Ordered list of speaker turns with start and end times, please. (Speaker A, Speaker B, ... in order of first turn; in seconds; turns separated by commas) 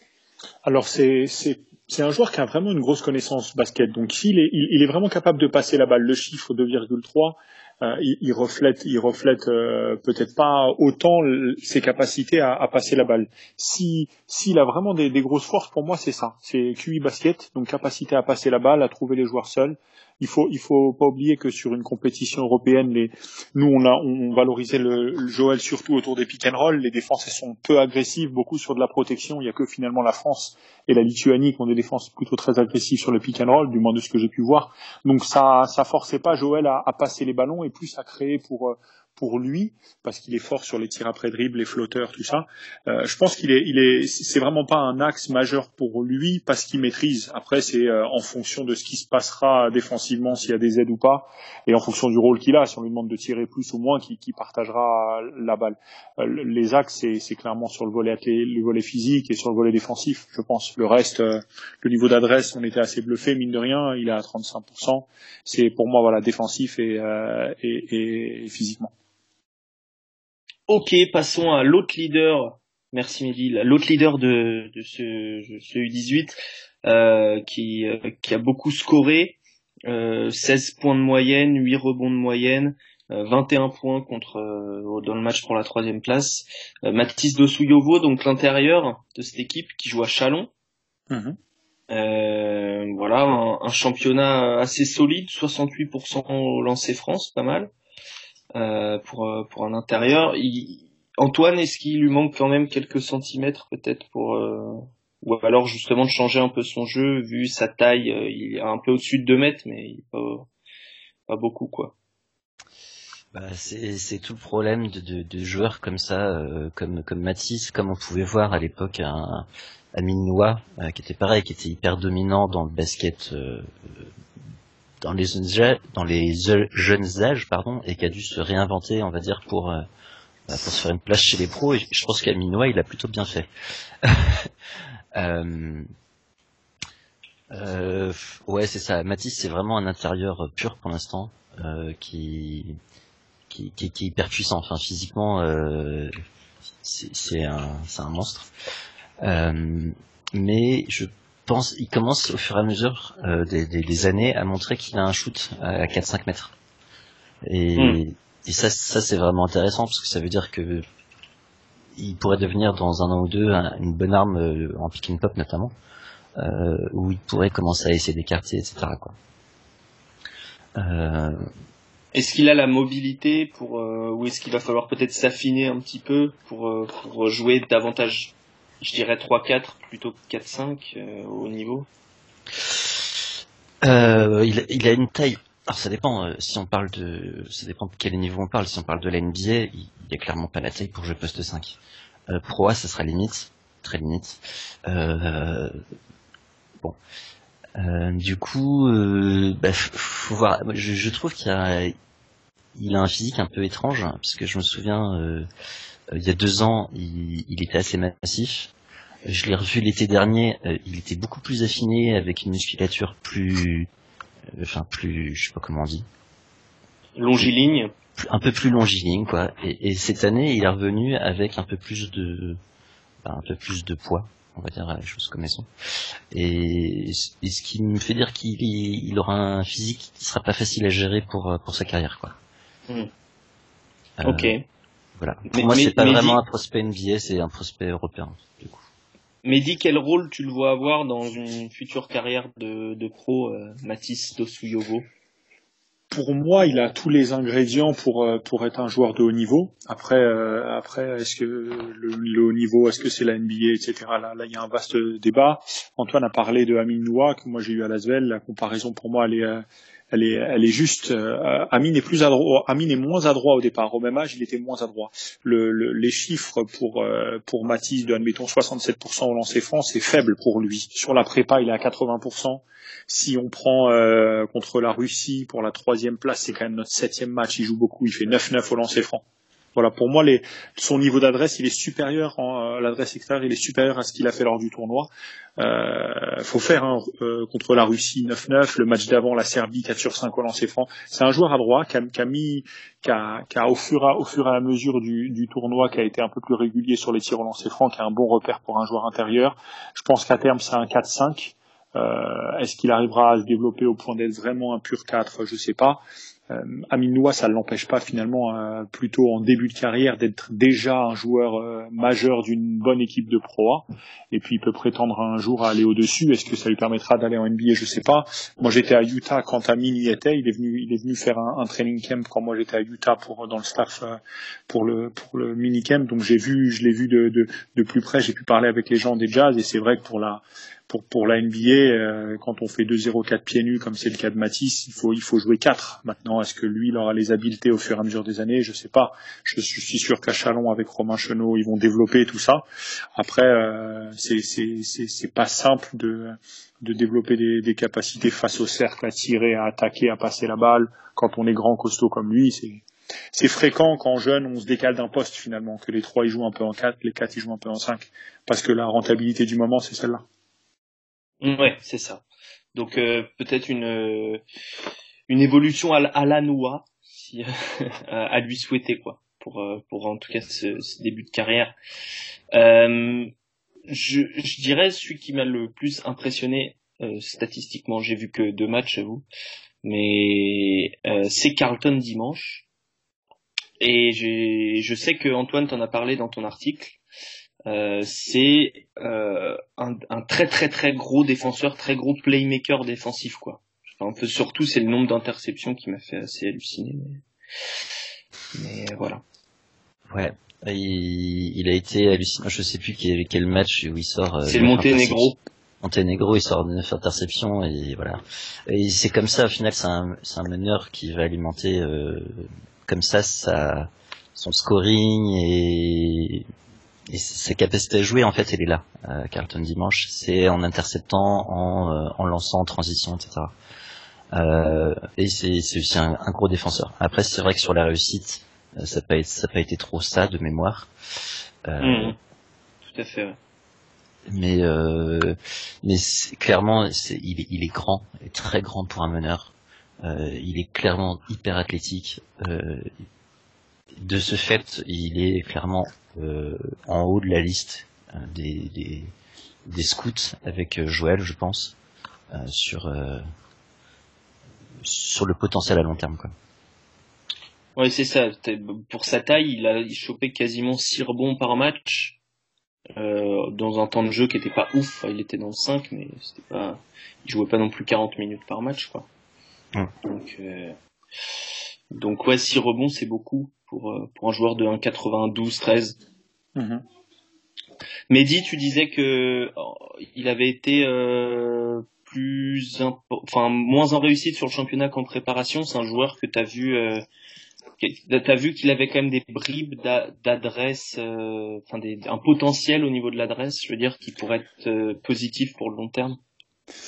Speaker A: 0.6-68.9, Speaker B: 70.7-90.5, Speaker A: 91.1-91.4, Speaker B: 91.9-97.7, Speaker B: 98.5-110.5, Speaker B: 111.3-111.9, Speaker C: 113.3-124.1, Speaker C: 125.0-129.8, Speaker C: 130.5-133.5, Speaker C: 134.0-134.5, Speaker C: 135.1-135.9, Speaker C: 137.5-142.8, Speaker C: 143.5-146.2, Speaker C: 146.8-148.5, Speaker C: 149.2-156.5, Speaker C: 157.4-160.8, Speaker C: 161.9-165.7, Speaker C: 166.3-169.1, Speaker C: 170.8-171.5, Speaker B: 172.1-181.9, Speaker C: 182.6-183.0, Speaker C: 183.8-191.8, Speaker C: 192.3-195.8, Speaker C: 197.8-201.9, Speaker C: 202.8-205.5, Speaker C: 206.1-208.7, Speaker C: 209.2-213.9, Speaker C: 214.5-216.1, Speaker B: 217.2-217.9, Speaker C: 218.2-222.6, Speaker C: 223.2-225.7, Speaker C: 226.3-232.3, Speaker C: 234.2-234.5, Speaker B: 234.2-234.6, Speaker C: 235.2-238.8, Speaker B: 235.5-236.4, Speaker B: 239.4-245.1, Speaker A: 246.1-279.2, Speaker A: 279.8-342.6, Speaker A: 343.1-360.2, Speaker B: 361.4-362.2, Speaker B: 362.7-364.4, Speaker B: 365.3-371.7, Speaker B: 372.5-373.3, Speaker B: 373.9-379.2, Speaker B: 379.8-382.6, Speaker B: 383.8-387.0, Speaker B: 387.7-397.2, Speaker B: 398.5-399.2, Speaker C: 400.1-416.5, Speaker B: 404.4-405.4, Speaker C: 417.1-423.5, Speaker C: 424.3-430.9, Speaker C: 431.6-432.1, Speaker B: 431.8-432.1, Speaker B: 432.8-433.4, Speaker C: 434.3-442.9, Speaker C: 444.0-449.1, Speaker C: 449.6-451.7, Speaker C: 452.3-453.2, Speaker C: 454.8-456.3, Speaker B: 457.8-462.2, Speaker B: 462.9-469.1, Speaker B: 470.0-470.8, Speaker B: 471.9-475.9, Speaker A: 476.6-476.8, Speaker B: 478.1-487.0, Speaker B: 487.8-496.2